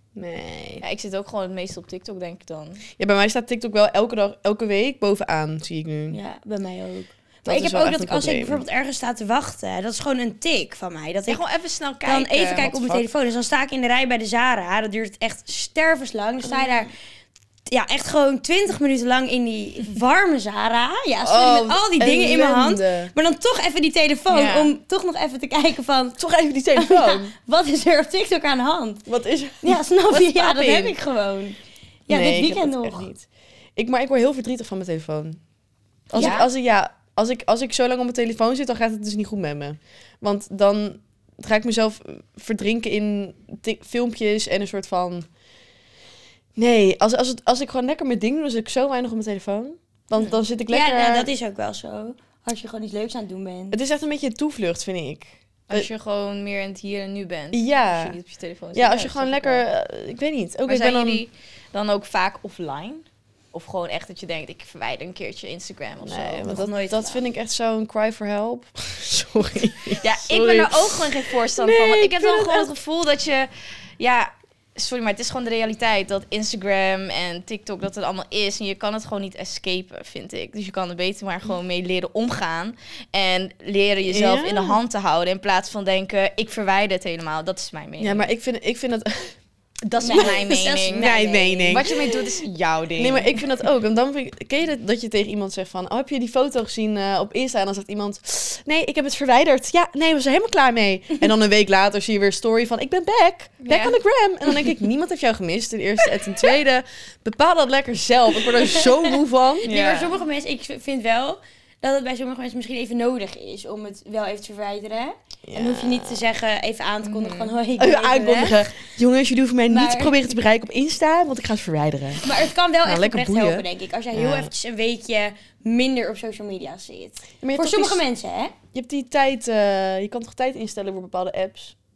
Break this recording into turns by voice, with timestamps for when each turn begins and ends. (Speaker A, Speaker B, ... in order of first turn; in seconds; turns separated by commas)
Speaker A: 0.1-0.8, Speaker B: 0.8-2.8, Speaker A: 3.0-6.2, Speaker C: 6.1-11.4, Speaker A: 7.4-8.6, Speaker B: 11.3-12.7, Speaker C: 12.0-16.9, Speaker A: 12.5-13.1, Speaker C: 17.7-26.2, Speaker A: 21.2-23.1, Speaker B: 24.3-24.7, Speaker A: 26.2-27.3, Speaker C: 26.7-29.1, Speaker A: 29.1-31.0, Speaker C: 29.6-33.1, Speaker A: 32.1-35.4, Speaker A: 36.1-45.3, Speaker C: 36.1-36.4, Speaker B: 36.1-36.5, Speaker A: 46.5-51.3, Speaker B: 50.1-50.4, Speaker C: 50.7-53.8, Speaker A: 53.7-55.9, Speaker B: 55.7-59.6, Speaker A: 57.5-58.2, Speaker A: 58.7-61.2, Speaker B: 60.7-66.6, Speaker A: 66.0-72.7, Speaker C: 66.4-67.2, Speaker B: 70.0-88.3, Speaker A: 84.1-84.8, Speaker A: 88.0-89.3, Speaker B: 89.8-91.1, Speaker C: 90.0-91.9, Speaker A: 90.0-90.4, Speaker A: 90.9-92.2, Speaker B: 91.7-93.4, Speaker A: 93.0-109.7, Speaker B: 103.7-104.0, Speaker C: 108.6-118.7, Speaker B: 109.7-110.1, Speaker A: 115.5-116.2, Speaker B: 117.0-117.5, Speaker A: 117.8-122.2, Speaker C: 119.7-120.3, Speaker C: 122.2-128.5, Speaker A: 122.8-124.5, Speaker A: 127.4-128.0, Speaker A: 128.7-131.7